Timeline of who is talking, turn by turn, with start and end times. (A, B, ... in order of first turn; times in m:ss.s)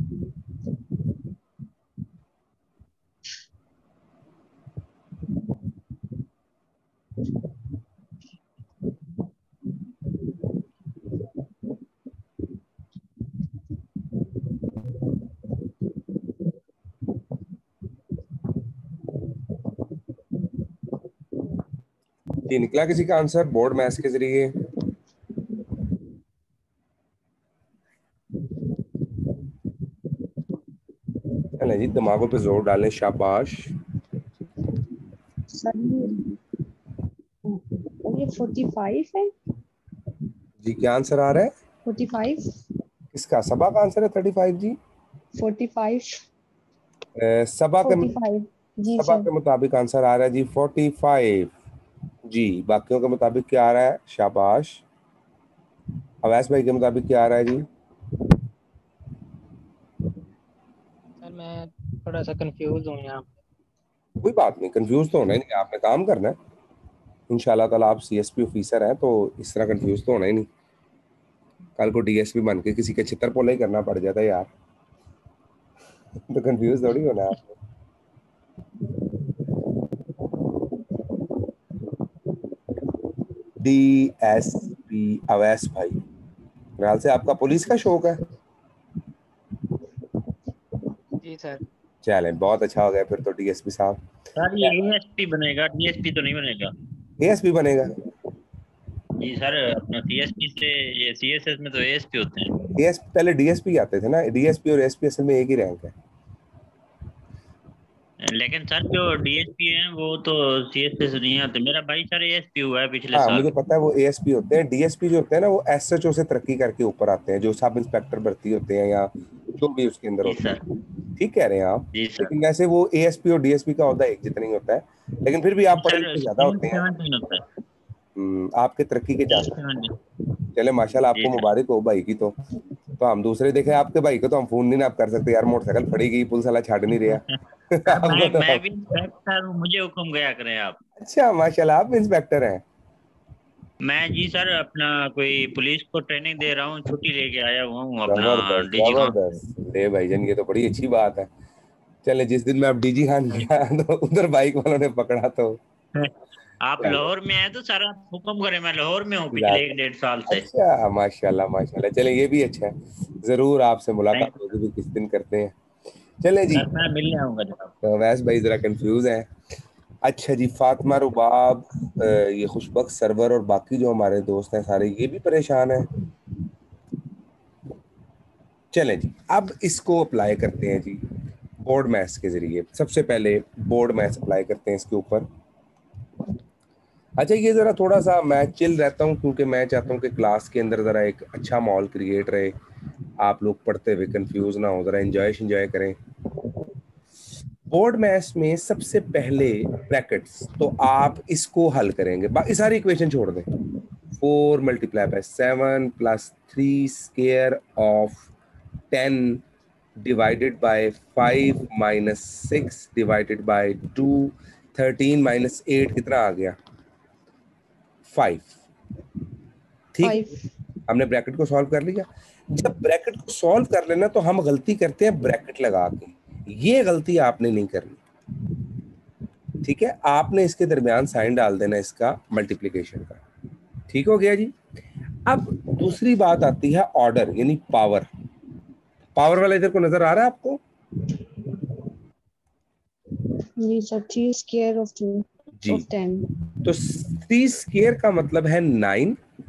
0:22.5-0:24.5 A
0:31.6-0:33.7 A
0:35.5-0:36.4 B
0:37.5-0:39.3 B
0:40.6-0:41.5 A
0:41.8-0:42.4 B
0:43.1-0:44.8 A
0:45.4-0:46.2 B
0:47.2-0:48.1 A
0:47.8-0:49.3 B
0:49.0-0:51.5 A
0:52.3-0:54.8 A
0:56.2-0:57.7 A
1:01.2-1:03.3 C
1:04.2-1:06.4 A
1:07.3-1:10.5 A
1:11.8-1:14.5 A
1:16.3-1:17.5 A
1:23.6-1:26.0 A
1:26.8-1:28.2 A
1:31.2-1:31.6 C
1:32.0-1:34.0 A
1:34.4-1:36.7 D
1:37.2-1:38.0 A
1:39.2-1:42.5 D
1:42.7-1:45.9 A
1:48.2-1:53.5 D
1:53.1-2:00.5 A
2:00.2-2:00.6 D
2:01.2-2:06.8 A
2:01.9-2:02.3 D
2:05.8-2:07.4 D
2:08.2-2:09.6 A
2:09.3-2:10.0 D
2:10.5-2:12.4 A
2:11.1-2:11.5 D
2:13.0-2:18.6 A
2:17.9-2:20.8 D
2:21.0-2:22.6 A
2:23.8-2:29.4 D
2:28.0-2:31.3 A
2:32.0-2:35.6 A
2:36.6-2:40.5 D
2:36.8-2:37.1 A
2:39.3-2:39.7 A
2:40.3-2:45.6 A
2:44.1-2:44.6 D
2:46.2-2:46.7 A
2:46.5-2:47.7 D
2:47.8-2:49.3 A
2:50.0-2:55.9 A
2:58.7-3:01.1 A
3:01.6-3:05.3 A
3:07.2-3:12.5 A
3:13.2-3:16.0 A
3:17.7-3:23.6 A
3:24.2-3:28.3 A
3:28.9-3:29.4 A
3:30.0-3:36.6 A
3:38.1-3:38.5 A
3:39.9-3:40.3 A
3:40.0-3:40.4 B
3:40.9-3:48.0 A
3:49.6-3:53.2 A
3:53.9-3:54.5 A
3:55.2-3:58.1 A
3:59.2-4:00.6 A
4:03.6-4:06.3 B
4:05.6-4:05.8 A
4:06.6-4:09.2 A